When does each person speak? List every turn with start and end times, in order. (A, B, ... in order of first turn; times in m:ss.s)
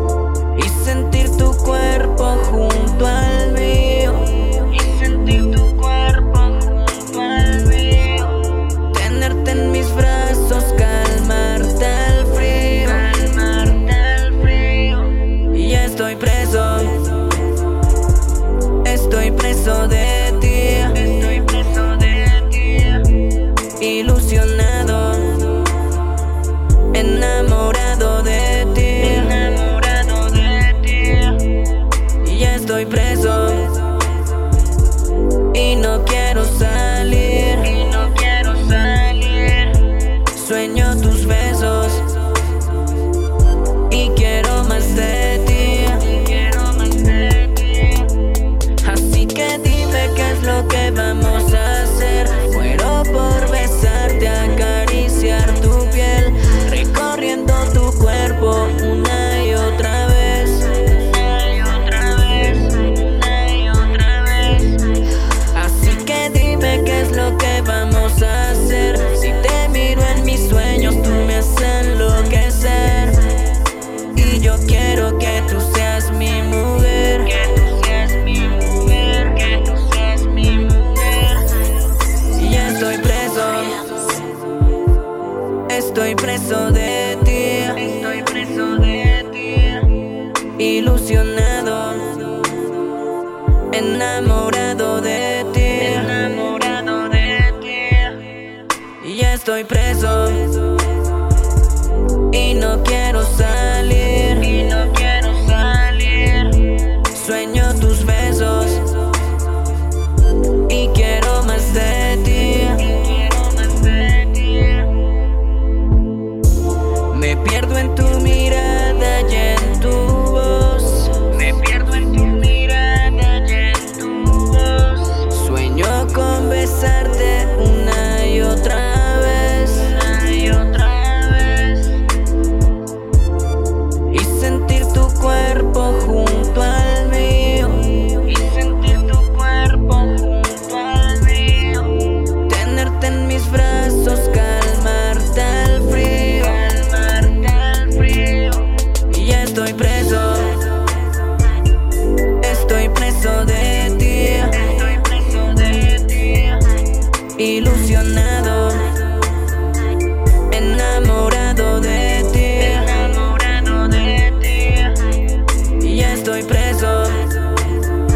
0:00.5-0:17.5 A
0:18.8-0:26.0 A
0:26.8-0:34.2 A
0:35.4-0:42.6 A
0:43.8-1:21.7 A
1:22.2-1:24.2 A
1:25.6-1:32.9 A
1:33.6-1:41.0 A
1:42.2-1:49.2 A
1:50.5-1:55.2 A
1:57.1-2:12.2 A
2:14.1-2:31.0 A
2:32.2-2:39.4 A
2:40.3-2:47.9 A